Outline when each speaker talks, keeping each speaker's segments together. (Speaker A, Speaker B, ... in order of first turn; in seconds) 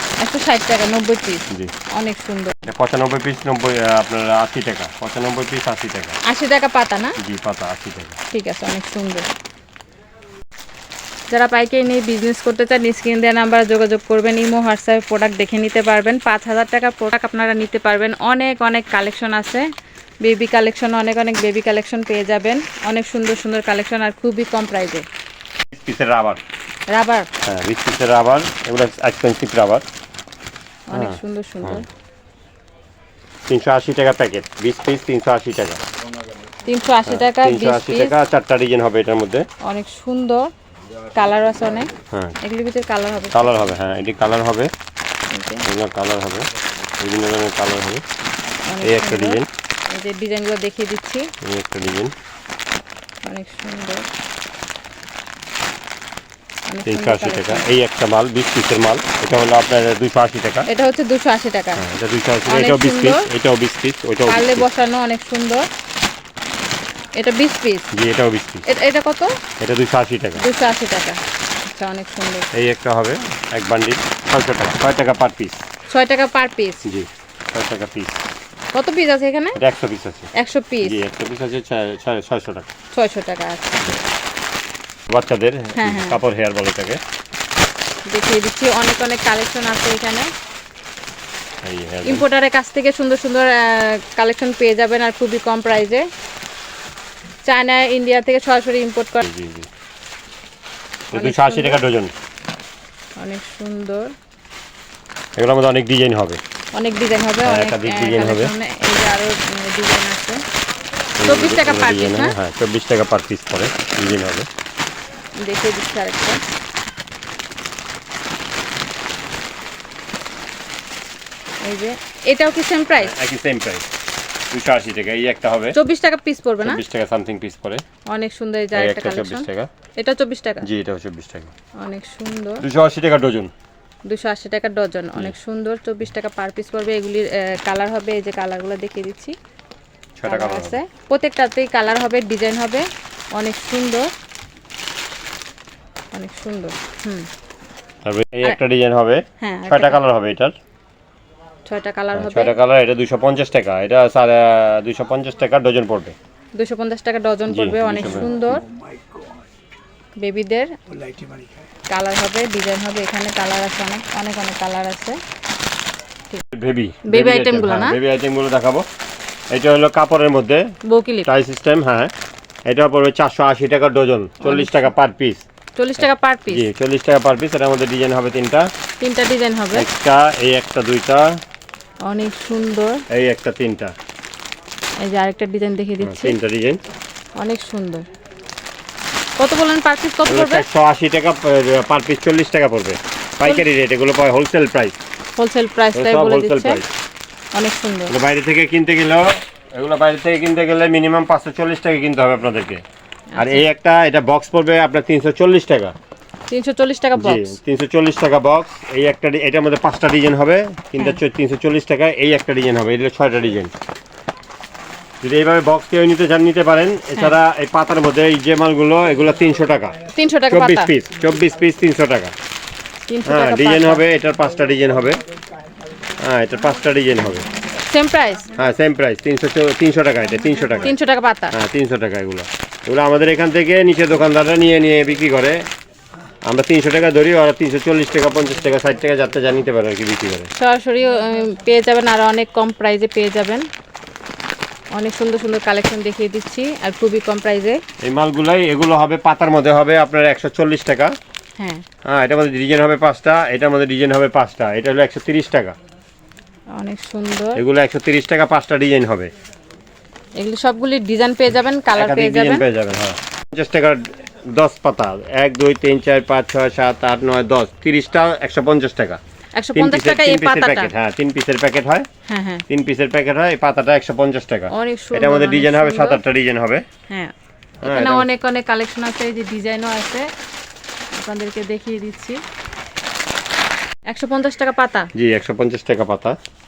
Speaker A: 0.2-2.6, 6.2-7.2, 8.3-9.3, 11.3-19.7, 20.2-25.1, 26.9-27.3, 30.9-31.9, 36.6-38.1, 39.6-40.5, 41.1-43.6, 45.3-45.7, 48.7-51.3, 53.2-54.1, 56.7-57.7, 60.7-61.8, 62.5-63.3, 64.3-65.7, 67.2-67.9, 68.7-69.3, 70.4-72.5, 75.9-76.8, 78.7-79.6, 80.3-81.0, 82.9-84.0, 85.8-86.2, 88.1-90.3, 92.0-96.0, 97.5-99.3, 101.1-101.8, 103.2-104.1, 106.8-110.4, 111.2-112.4, 115.4-116.4, 121.6-123.2, 125.7-126.8, 128.1-130.7, 131.8-132.7, 134.1-139.3, 140.2-144.1, 146.1-147.3, 149.4-150.0, 151.7-152.5, 156.6-158.7, 160.2-160.7, 161.9-165.2, 167.0-168.0, 170.8-171.3, 174.4-174.9, 175.8-176.7, 179.0-179.9, 182.1-183.0, 185.0-186.4, 187.4-188.1, 189.4-190.7, 193.4-193.7, 195.4-196.8, 197.5-198.2, 203.3-203.7, 206.5-207.6, 220.2-220.9, 223.1-224.0, 227.8-228.5, 230.8-231.6, 240.6-243.7, 244.9-247.8, 251.6-251.8, 256.8-257.6, 260.4-262.6, 269.6-270.9, 272.3-272.6, 274.7-276.2, 277.1-280.3, 281.1-282.4, 284.1-285.1
Speaker B: 2.6-6.2, 7.2-8.2, 25.7-26.4, 27.4-29.8, 30.9-31.8, 33.5-35.8, 37.0-39.5, 42.1-42.4, 43.3-44.7, 45.6-46.5, 47.0-48.0, 48.8-49.5, 51.4-52.1, 56.9-60.7, 61.8-64.7, 67.9-68.6, 69.6-70.4, 72.5-75.6, 76.8-78.2, 79.6-80.3, 80.8-82.7, 85.1-87.0, 91.6-92.3, 99.2-99.7, 101.1-102.1, 105.4-106.4, 107.4-108.5, 111.2-114.5, 123.0-123.8, 124.5-125.8, 126.6-127.8, 128.8-129.7, 130.6-131.5, 132.6-133.5, 140.2-140.8, 148.0-150.6, 152.1-156.2, 157.5-158.6, 166.5-168.8, 169.5-170.7, 171.3-172.1, 172.7-175.4, 176.0-178.7, 179.7-181.4, 183.1-183.9, 186.0-186.8, 190.3-195.0, 195.9-196.9, 198.1-202.8, 203.4-205.9, 207.2-213.7, 215.2-220.0, 220.5-222.3, 223.3-225.2, 226.2-227.5, 228.6-230.9, 231.5-235.7, 236.5-240.5, 248.0-251.2, 252.1-255.8, 257.6-259.3, 261.9-269.2, 269.7-272.1, 272.7-276.9, 277.8-278.3, 285.1-286.4